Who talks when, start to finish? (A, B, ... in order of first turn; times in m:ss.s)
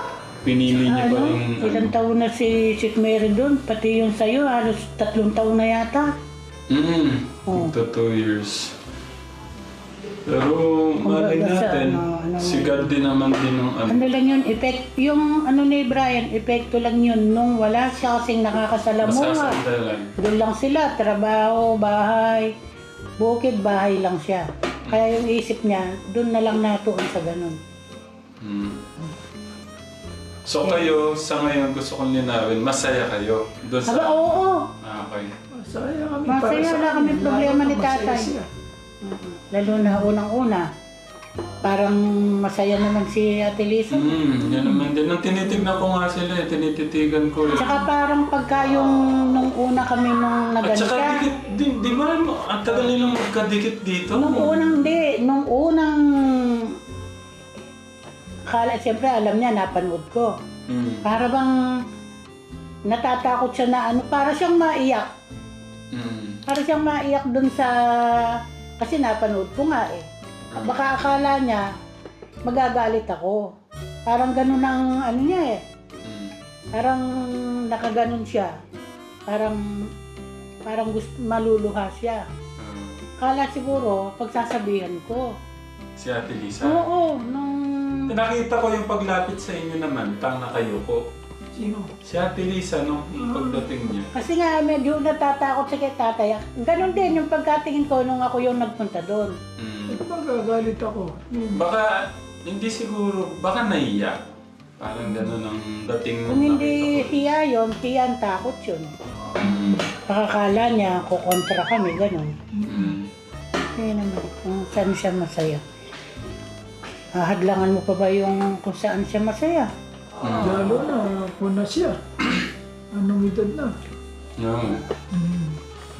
0:00.4-0:01.9 A
0:00.7-0:06.1 B
0:06.7-0:08.7 A
0:10.2-0:14.0 A
0:11.0-0:12.9 B
0:13.9-0:19.6 B
0:19.0-0:20.1 A
0:20.2-0:22.5 B
0:23.2-0:27.6 B
0:28.4-0:28.8 A
0:30.4-0:34.2 A
0:33.8-0:34.7 B
0:34.8-0:35.3 A
0:35.5-0:38.4 C
0:36.3-0:38.3 B
0:39.0-0:40.6 B
0:39.7-0:40.1 C
0:41.6-0:44.2 B
0:43.9-0:47.8 A
0:47.5-0:51.3 B
0:50.6-0:54.8 A
0:54.1-0:56.5 B
0:58.5-1:00.3 B
1:00.7-1:01.0 A
1:01.0-1:01.5 B
1:02.9-1:05.1 B
1:05.9-1:06.4 A
1:06.5-1:07.7 B
1:08.8-1:10.0 B
1:10.5-1:10.8 A
1:10.6-1:11.6 B
1:12.4-1:13.4 B
1:14.1-1:15.6 B
1:16.0-1:16.3 A
1:16.8-1:17.0 B
1:17.7-1:18.5 B
1:19.3-1:19.6 B
1:20.7-1:22.2 B
1:22.6-1:23.0 A
1:23.2-1:25.2 B
1:26.0-1:26.8 A
1:26.6-1:28.0 B
1:28.1-1:31.0 A
1:31.5-1:31.9 C
1:32.0-1:34.1 A
1:33.3-1:33.6 C
1:34.1-1:39.3 B
1:36.8-1:37.2 C
1:39.6-1:40.0 A
1:39.9-1:41.6 C
1:41.5-1:41.9 A
1:42.4-1:44.2 A
1:44.8-1:47.1 A
1:45.0-1:45.3 C
1:46.3-1:48.9 B
1:49.4-1:49.8 A
1:49.4-1:49.8 C
1:50.1-1:52.3 B
1:52.5-1:53.0 C
1:52.7-1:53.1 A
1:53.8-1:55.6 B
1:57.2-1:59.7 B
2:00.2-2:00.6 A
2:00.4-2:02.4 C
2:02.9-2:03.7 C
2:04.4-2:04.8 A
2:05.1-2:05.6 C